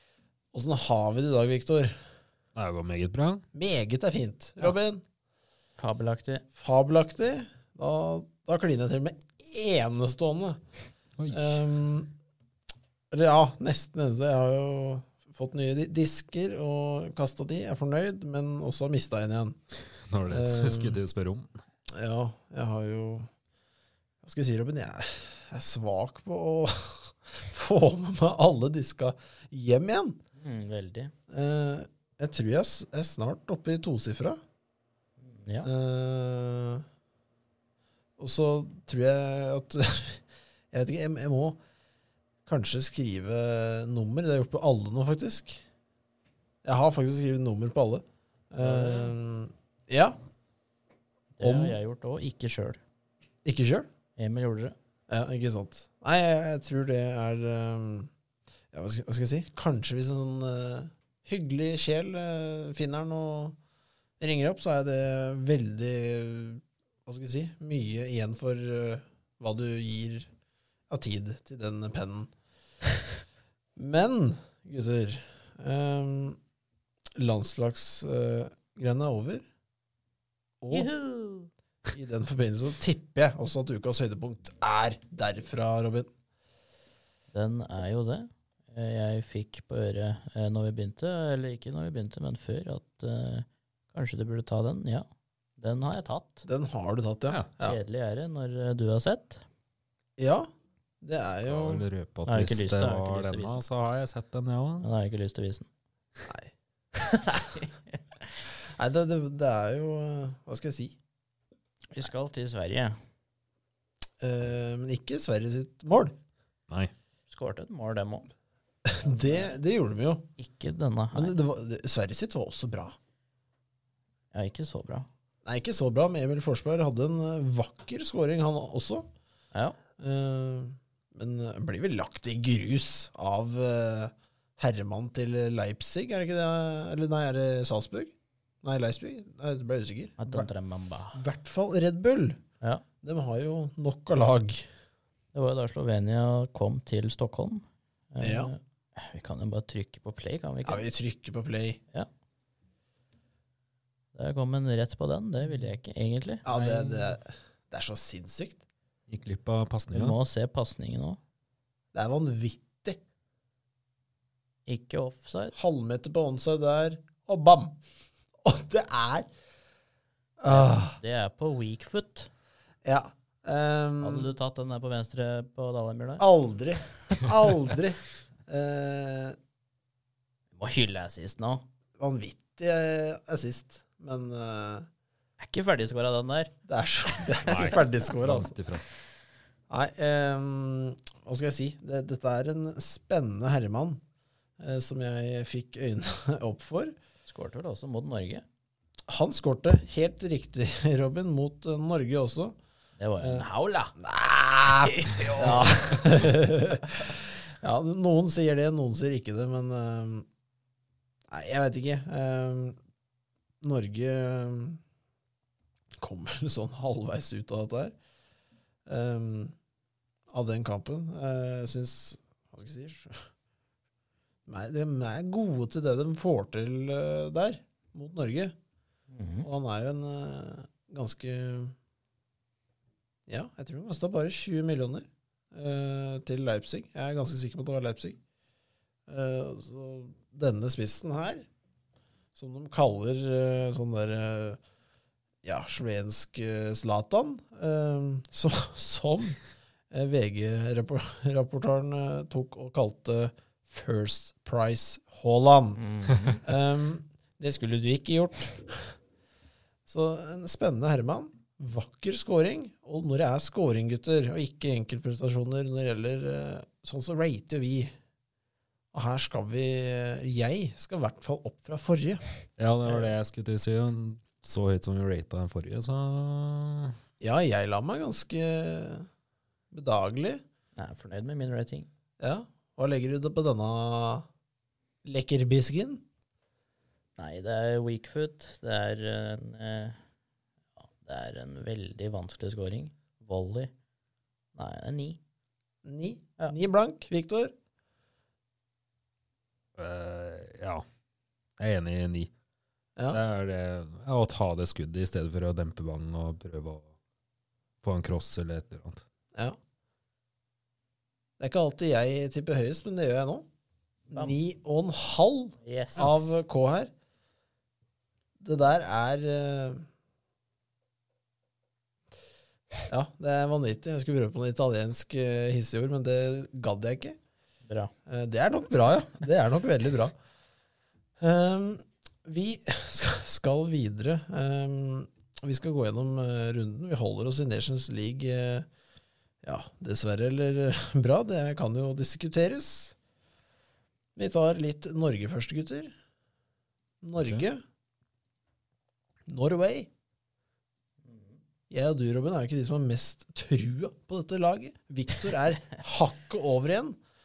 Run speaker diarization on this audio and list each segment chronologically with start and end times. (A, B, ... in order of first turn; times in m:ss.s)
0:00.5-0:02.0 A
0:02.6-0:03.4 B
0:03.5-0:05.0 A
0:05.8-0:06.4 C
0:06.6-0:10.6 A
0:11.2-0:11.6 B
0:11.3-0:12.1 A
0:13.1-0:19.6 A
0:20.1-0:21.5 B
0:20.3-0:21.0 A
0:21.9-0:23.3 A
0:24.2-0:30.2 A
0:30.4-0:31.1 C
0:31.3-0:34.4 A
0:35.2-0:35.7 C
0:35.6-0:36.8 A
0:38.2-0:41.6 A
0:42.4-0:45.6 A
0:46.6-0:50.2 A
0:48.6-0:49.1 C
0:51.4-0:52.8 C
0:51.4-0:51.8 A
0:53.4-0:53.9 A
0:54.2-0:54.7 C
0:55.1-0:58.1 A
0:58.7-1:03.6 A
1:04.2-1:10.3 A
1:10.9-1:12.3 A
1:13.8-1:16.4 A
1:17.2-1:19.4 A
1:20.6-1:20.9 A
1:20.7-1:21.5 C
1:21.9-1:26.1 A
1:27.3-1:35.0 C
1:35.6-1:36.5 C
1:36.4-1:37.8 A
1:37.6-1:39.4 C
1:40.2-1:40.5 A
1:41.0-1:41.8 A
1:41.3-1:44.9 B
1:42.3-1:43.6 C
1:44.8-1:45.7 C
1:46.2-1:46.5 A
1:47.0-1:48.0 C
1:48.7-1:51.0 A
1:51.9-1:53.0 C
1:54.2-1:56.2 A
1:57.3-1:58.3 C
1:58.8-2:00.3 A
1:59.0-1:59.6 C
2:00.4-2:01.4 C
2:01.1-2:03.0 A
2:04.3-2:05.1 C
2:05.4-2:09.0 A
2:10.0-2:20.5 A
2:20.2-2:21.2 C
2:21.1-2:22.4 A
2:23.0-2:24.7 A
2:25.3-2:30.8 C
2:28.2-2:28.5 A
2:30.6-2:31.8 A
2:34.1-2:36.4 C
2:36.4-2:38.6 A
2:36.5-2:37.2 B
2:39.1-2:40.2 B
2:39.9-2:41.2 C
2:41.9-2:43.0 A
2:44.7-2:45.6 C
2:45.5-2:47.8 A
2:48.4-2:49.3 A
2:50.4-2:51.0 A
2:50.5-2:52.3 C
2:52.8-2:54.3 A
2:54.0-2:56.2 C
2:56.2-2:59.4 A
3:00.6-3:01.6 C
3:02.0-3:04.9 A
3:05.4-3:06.5 C
3:06.6-3:08.5 A
3:07.4-3:08.8 B
3:07.5-3:07.8 C
3:09.7-3:14.0 A
3:14.6-3:16.9 A
3:17.2-3:18.4 C
3:19.1-3:22.6 A
3:23.0-3:24.0 C
3:23.2-3:23.4 A
3:24.0-3:30.3 A
3:24.8-3:26.1 C
3:31.3-3:32.8 A
3:33.6-3:34.8 A
3:36.0-3:37.9 A
3:38.9-3:39.5 A
3:40.3-3:43.3 A
3:44.5-3:48.5 A
3:49.1-3:49.5 C
3:49.4-3:51.8 A
3:53.3-3:58.2 A
3:59.1-4:01.4 A
4:02.4-4:04.6 A
4:05.4-4:09.4 A
4:09.9-4:15.8 A
4:15.8-4:16.4 C
4:16.4-4:19.0 A
4:19.8-4:27.9 A
4:28.9-4:32.2 A
4:32.6-4:37.0 B
4:32.8-4:33.1 C
4:37.2-4:39.1 A
4:39.7-4:40.4 A
4:40.8-4:41.9 C
4:42.2-4:44.3 A
4:45.0-4:46.0 A
4:47.2-4:50.0 C
4:51.0-4:53.7 C
4:54.5-4:55.2 C
4:55.8-4:57.5 A
4:59.8-5:00.8 B
5:01.6-5:02.3 B
5:03.1-5:06.9 B
5:07.8-5:09.0 B
5:11.4-5:13.5 A
5:14.1-5:16.9 A
5:14.1-5:14.4 C
5:15.6-5:16.4 C
5:18.4-5:19.8 A
5:22.9-5:27.2 A
5:27.6-5:27.9 C
5:28.0-5:30.1 A
5:31.2-5:38.7 A
5:39.4-5:42.9 A
5:44.2-5:45.9 A
5:47.0-5:47.6 A
5:49.3-5:49.9 A
5:51.0-5:51.4 C
5:51.7-5:57.0 A